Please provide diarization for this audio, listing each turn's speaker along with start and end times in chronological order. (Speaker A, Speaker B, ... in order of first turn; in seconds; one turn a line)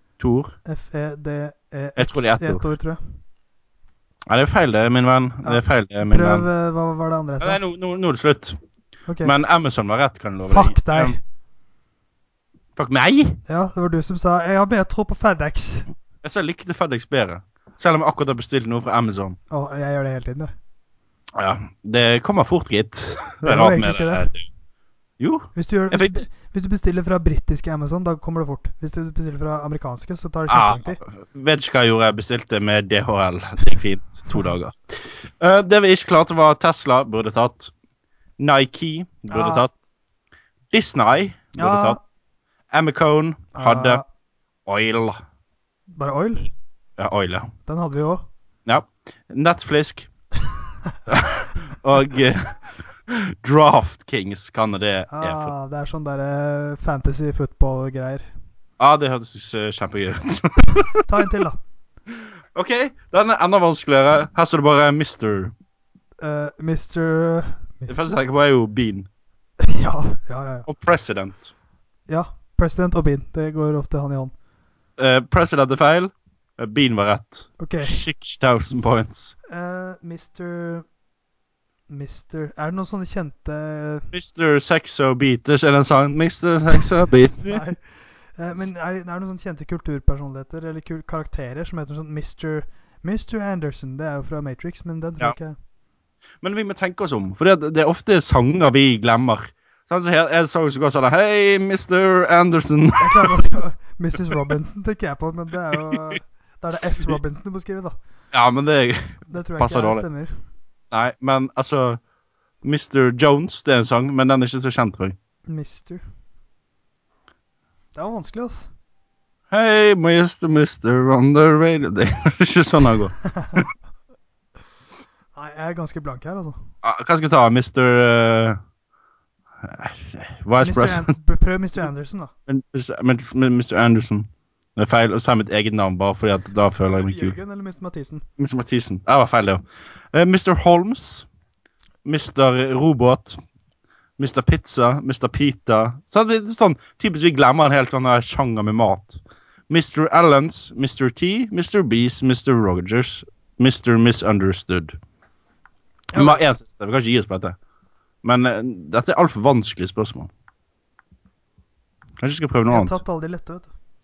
Speaker A: 0.2-0.5
Speaker B: 0.6-3.0
Speaker A: 2.0-2.7
Speaker A: 4.3-6.5
Speaker B: 5.4-7.6
Speaker A: 7.4-8.6
Speaker B: 9.1-9.3
Speaker A: 9.2-11.2
Speaker B: 10.4-11.2
Speaker A: 12.8-13.4
Speaker B: 13.4-15.9
Speaker A: 16.2-19.4
Speaker B: 19.5-20.5
Speaker A: 21.3-24.4
Speaker B: 23.4-24.3
Speaker A: 25.2-26.2
Speaker B: 25.5-31.0
Speaker A: 30.5-37.7
Speaker A: 38.4-39.7
Speaker B: 39.3-39.6
Speaker A: 40.7-42.0
Speaker B: 41.5-42.0
Speaker A: 42.7-44.0
Speaker B: 43.5-44.0
Speaker A: 44.6-45.2
Speaker B: 45.9-46.5
Speaker A: 47.0-47.5
Speaker B: 47.6-48.3
Speaker A: 48.6-50.1
Speaker A: 51.1-55.5
Speaker B: 55.1-58.3
Speaker A: 58.8-61.0
Speaker B: 61.0-61.6
Speaker A: 62.1-65.5
Speaker B: 66.2-67.9
Speaker A: 67.9-69.1
Speaker B: 69.6-70.7
Speaker A: 70.7-71.5
Speaker B: 72.1-74.3
Speaker A: 75.0-79.3
Speaker B: 77.6-78.0
Speaker B: 79.5-80.8
Speaker B: 81.9-84.1
Speaker A: 84.1-87.6
Speaker B: 87.4-87.8
Speaker B: 88.4-95.5
Speaker A: 96.4-103.3
Speaker B: 103.0-108.0
Speaker A: 108.3-110.0
Speaker B: 109.3-110.3
Speaker A: 110.9-112.0
Speaker A: 112.6-115.2
Speaker B: 115.5-116.0
Speaker B: 117.9-118.7
Speaker A: 119.5-123.6
Speaker B: 123.3-123.6
Speaker B: 125.3-126.6
Speaker A: 126.8-128.6
Speaker A: 129.6-131.1
Speaker B: 130.6-132.3
Speaker A: 132.5-137.3
Speaker B: 136.9-138.2
Speaker A: 138.4-141.2
Speaker A: 142.0-143.4
Speaker A: 144.2-155.0
Speaker A: 156.1-157.6
Speaker A: 158.2-160.3
Speaker A: 162.2-163.0
Speaker B: 162.7-163.7